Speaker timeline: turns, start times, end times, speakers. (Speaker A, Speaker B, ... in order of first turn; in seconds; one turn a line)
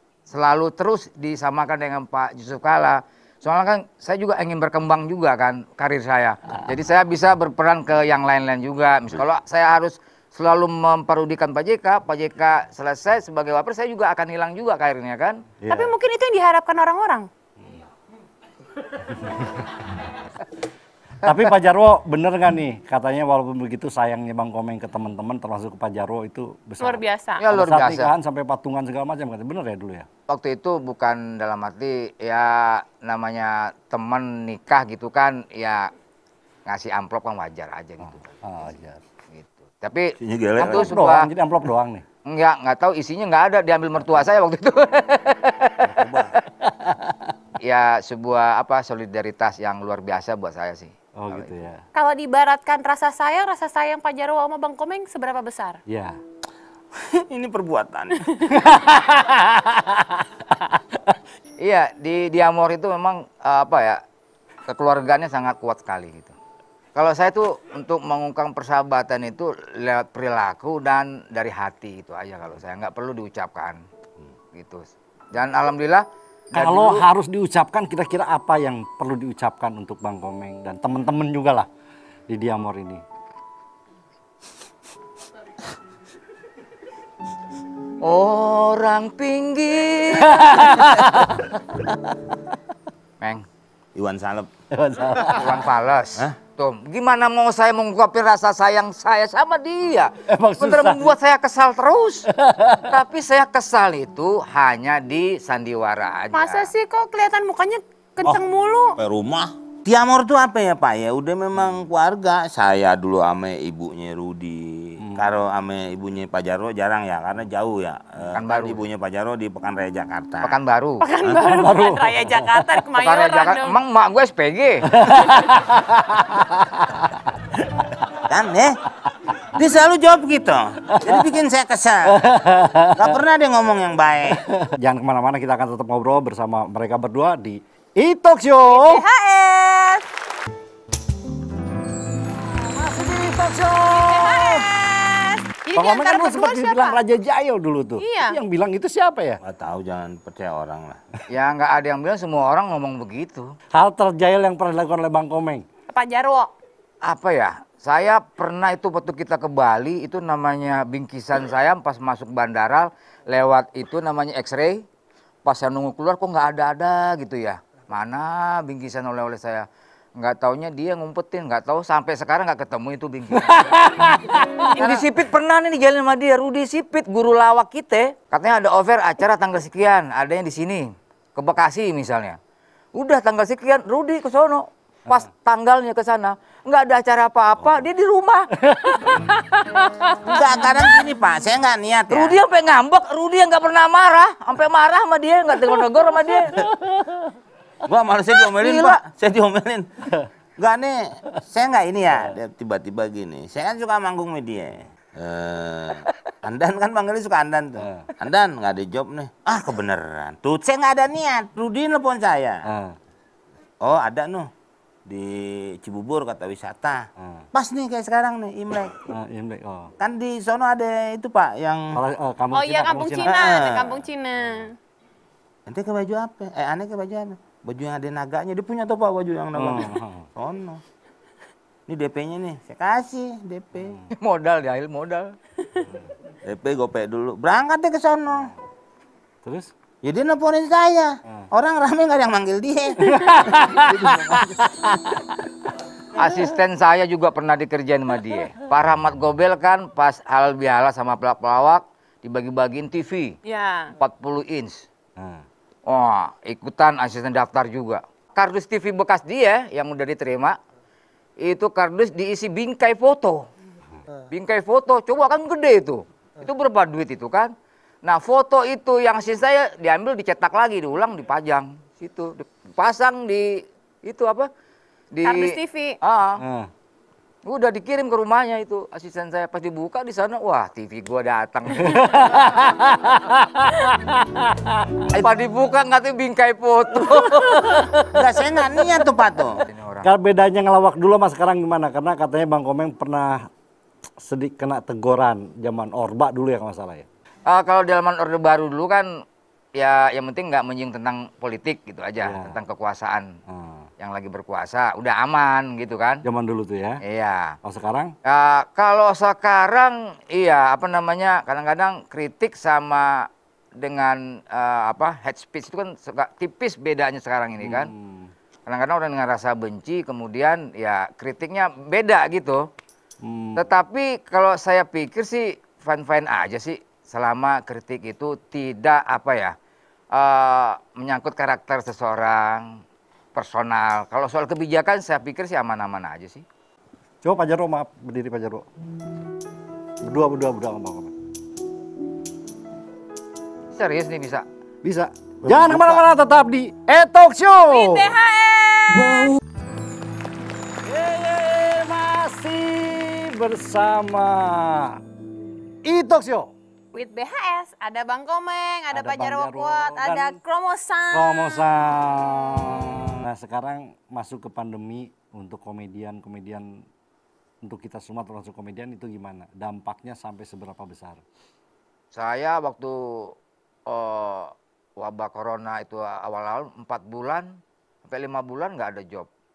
Speaker A: 0.3-15.4
Speaker B: 15.6-15.9
Speaker C: 15.7-17.3
Speaker B: 19.1-19.6
Speaker B: 21.2-30.1
Speaker C: 26.8-27.4
Speaker A: 27.4-28.1
Speaker A: 30.3-35.9
Speaker A: 36.6-38.4
Speaker B: 38.0-39.0
Speaker A: 39.3-41.3
Speaker D: 40.2-40.9
Speaker B: 40.6-42.0
Speaker A: 42.3-45.8
Speaker D: 45.8-46.4
Speaker B: 46.6-47.2
Speaker A: 47.6-51.5
Speaker B: 51.1-51.8
Speaker C: 51.9-55.8
Speaker B: 55.9-56.2
Speaker D: 56.9-58.5
Speaker C: 58.3-58.6
Speaker B: 58.5-61.2
Speaker A: 61.6-64.0
Speaker A: 64.7-66.3
Speaker A: 66.9-73.8
Speaker A: 74.5-77.1
Speaker B: 76.5-81.7
Speaker B: 82.3-83.0
Speaker A: 88.0-90.8
Speaker B: 90.2-91.5
Speaker A: 93.2-93.4
Speaker D: 93.9-94.5
Speaker B: 94.7-95.6
Speaker A: 95.3-102.3
Speaker B: 100.3-101.1
Speaker B: 102.3-103.0
Speaker A: 102.9-106.7
Speaker C: 106.3-109.0
Speaker D: 109.0-120.6
Speaker B: 115.0-115.3
Speaker A: 118.3-118.8
Speaker A: 120.4-121.1
Speaker C: 121.0-123.8
Speaker B: 121.2-122.7
Speaker A: 123.0-125.1
Speaker B: 124.9-127.1
Speaker D: 128.3-128.8
Speaker D: 129.6-132.2
Speaker B: 131.0-131.2
Speaker B: 132.1-133.2
Speaker D: 132.9-134.4
Speaker B: 134.3-139.0
Speaker C: 138.7-140.1
Speaker B: 142.6-144.7
Speaker C: 143.9-147.0
Speaker B: 145.8-149.4
Speaker C: 148.0-148.4
Speaker D: 149.4-151.0
Speaker A: 151.3-153.5
Speaker B: 153.7-155.7
Speaker C: 155.9-156.5
Speaker A: 157.0-164.8
Speaker A: 165.4-169.7
Speaker A: 170.2-173.8
Speaker B: 173.3-174.8
Speaker C: 174.7-175.0
Speaker A: 174.8-182.4
Speaker A: 182.9-188.5
Speaker B: 188.6-189.0
Speaker C: 189.4-190.4
Speaker D: 190.3-192.4
Speaker A: 192.1-196.6
Speaker B: 196.6-197.3
Speaker D: 197.8-199.9
Speaker A: 198.5-199.0
Speaker D: 200.6-212.6
Speaker B: 207.8-208.1
Speaker B: 212.7-213.0
Speaker D: 213.8-214.5
Speaker D: 215.1-219.0
Speaker B: 217.2-217.5
Speaker B: 219.1-219.9
Speaker D: 220.0-222.0
Speaker B: 221.9-223.4
Speaker C: 222.5-224.8
Speaker D: 223.2-223.9
Speaker D: 225.7-230.8
Speaker B: 229.6-230.3
Speaker D: 231.9-234.0
Speaker A: 234.2-235.3
Speaker D: 236.4-238.5
Speaker B: 239.4-239.7
Speaker D: 240.0-244.8
Speaker B: 243.1-244.9
Speaker A: 246.1-253.4
Speaker C: 253.4-253.9
Speaker A: 254.0-254.9
Speaker B: 255.2-255.4
Speaker A: 255.9-260.6
Speaker A: 261.4-263.5
Speaker A: 264.3-267.5
Speaker A: 268.1-274.5
Speaker A: 275.1-276.4
Speaker C: 275.2-276.0
Speaker B: 276.4-276.7
Speaker A: 277.4-282.1
Speaker B: 281.7-285.2
Speaker A: 285.1-287.9
Speaker B: 287.2-287.6
Speaker D: 288.1-289.6
Speaker A: 289.6-290.1
Speaker B: 290.0-293.5
Speaker B: 294.2-297.1
Speaker A: 297.5-299.2
Speaker A: 299.8-303.4
Speaker B: 302.2-302.6
Speaker B: 303.5-303.9
Speaker A: 304.0-306.2
Speaker B: 306.2-307.0
Speaker A: 307.0-307.6
Speaker B: 307.6-308.1
Speaker A: 308.2-317.9
Speaker B: 317.6-318.3
Speaker A: 318.6-322.7
Speaker B: 323.2-323.6
Speaker A: 323.6-329.5
Speaker A: 330.1-332.8
Speaker A: 333.4-336.4
Speaker B: 337.2-338.6
Speaker B: 340.0-341.1
Speaker A: 343.7-344.4
Speaker B: 344.8-348.1
Speaker D: 345.4-346.1
Speaker C: 347.7-349.3
Speaker B: 350.8-355.0
Speaker B: 355.8-356.5
Speaker C: 356.9-361.7
Speaker B: 358.9-360.4
Speaker B: 361.1-366.8
Speaker B: 367.6-371.2
Speaker A: 372.1-373.3
Speaker A: 373.9-379.3